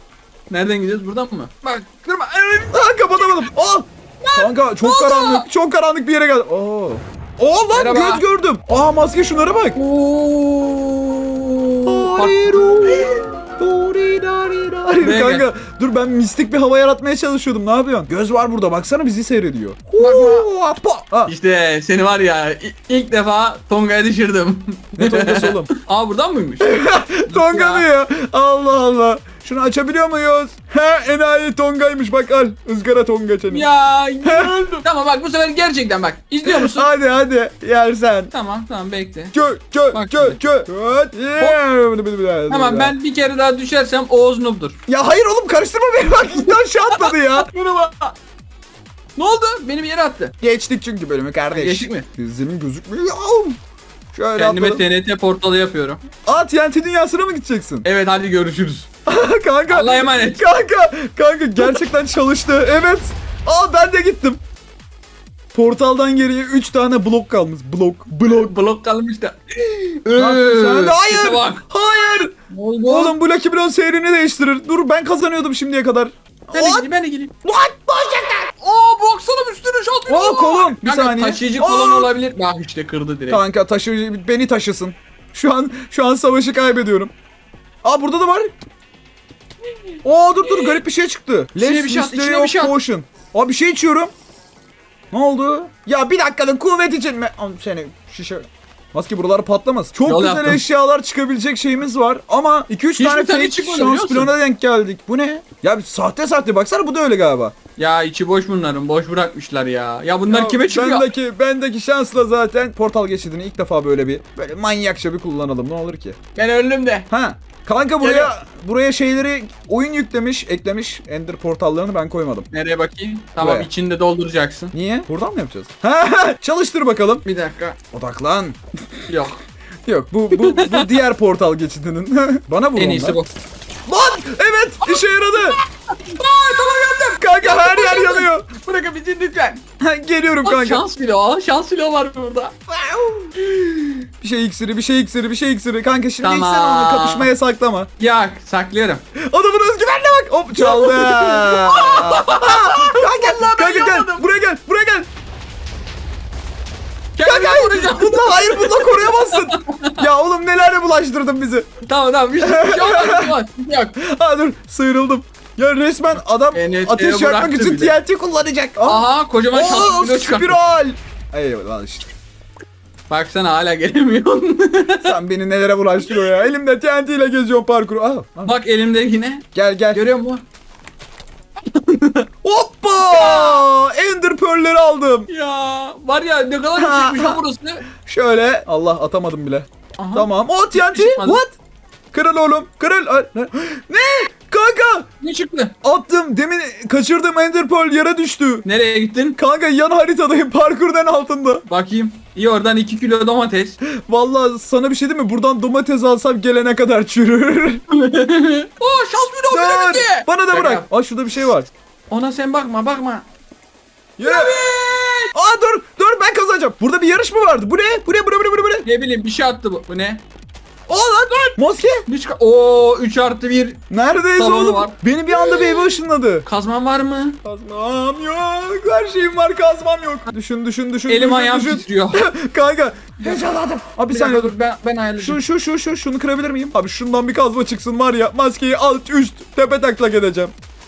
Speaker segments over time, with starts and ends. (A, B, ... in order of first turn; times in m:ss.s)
0:00.5-0:03.4 A
0:02.7-0:09.8 B
0:04.2-0:05.4 A
0:07.7-0:08.2 A
0:09.8-0:13.3 A
0:11.8-0:21.3 B
0:15.0-0:15.5 A
0:20.0-0:20.5 A
0:21.3-0:26.7 A
0:25.0-0:25.7 B
0:26.6-0:33.7 B
0:27.2-0:27.8 A
0:33.5-0:36.9 A
0:34.2-0:34.5 B
0:36.4-0:38.3 B
0:38.3-0:39.3 A
0:39.3-0:42.9 B
0:39.9-0:40.4 A
0:42.5-0:44.8 A
0:44.9-0:47.5 B
0:46.3-0:48.2 A
0:49.2-0:50.3 A
0:50.4-0:53.6 B
0:51.5-0:52.1 A
0:54.1-0:54.8 B
0:54.4-0:56.0 A
0:56.2-0:57.8 B
0:57.8-0:58.9 A
0:59.0-1:04.4 B
0:59.7-1:00.4 A
1:05.5-1:08.5 B
1:08.2-1:11.6 A
1:10.1-1:12.3 B
1:12.5-1:13.1 A
1:12.9-1:16.9 B
1:16.5-1:17.3 A
1:17.4-1:18.5 B
1:18.6-1:23.4 A
1:20.1-1:22.1 B
1:23.3-1:27.1 B
1:27.8-1:28.5 B
1:30.0-1:34.1 B
1:30.4-1:30.8 A
1:31.6-1:32.7 A
1:35.1-1:47.5 B
1:40.0-1:40.6 A
1:42.9-1:44.3 A
1:47.8-1:51.1 A
1:50.3-1:56.2 B
1:56.3-1:57.1 A
1:57.1-2:02.5 B
1:58.0-1:58.3 A
2:02.5-2:04.7 A
2:03.4-2:03.7 B
2:04.7-2:07.2 B
2:07.2-2:07.8 A
2:07.9-2:09.0 B
2:09.1-2:09.4 A
2:09.8-2:13.2 B
2:10.3-2:11.0 A
2:12.8-2:13.3 A
2:13.9-2:15.6 B
2:14.8-2:19.6 A
2:17.1-2:18.4 B
2:19.8-2:20.8 B
2:20.4-2:22.5 A
2:22.7-2:23.3 B
2:23.4-2:24.0 A
2:24.2-2:27.9 B
2:26.2-2:27.3 A
2:28.0-2:29.0 A
2:29.1-2:35.1 B
2:30.6-2:34.2 A
2:37.2-2:40.0 A
2:37.2-2:41.7 B
2:41.8-2:43.9 A
2:42.4-2:43.3 B
2:44.0-2:52.1 B
2:46.5-2:48.0 A
2:48.8-2:50.6 A
2:53.1-2:55.1 A
2:55.0-2:58.5 B
2:58.4-3:00.4 A
2:59.5-3:00.1 B
3:01.6-3:02.3 A
3:02.4-3:05.3 B
3:03.0-3:03.6 A
3:05.3-3:07.8 A
3:06.8-3:07.4 B
3:07.9-3:11.5 B
3:10.0-3:11.4 A
3:12.1-3:15.1 B
3:15.2-3:15.7 A
3:15.8-3:18.6 B
3:18.6-3:19.4 A
3:19.4-3:21.6 B
3:21.7-3:23.8 A
3:23.8-3:27.8 B
3:27.9-3:30.8 A
3:29.5-3:31.7 B
3:32.1-3:33.2 A
3:34.2-3:34.6 B
3:34.2-3:35.3 A
3:35.3-3:38.8 B
3:38.8-3:40.2 A
3:40.9-3:42.0 B
3:42.1-3:43.8 A
3:43.9-3:46.4 B
3:44.4-3:47.4 A
3:47.4-3:54.5 B
3:51.1-3:52.2 A
3:53.2-3:53.6 A
3:54.1-3:55.4 A
3:55.2-4:00.5 B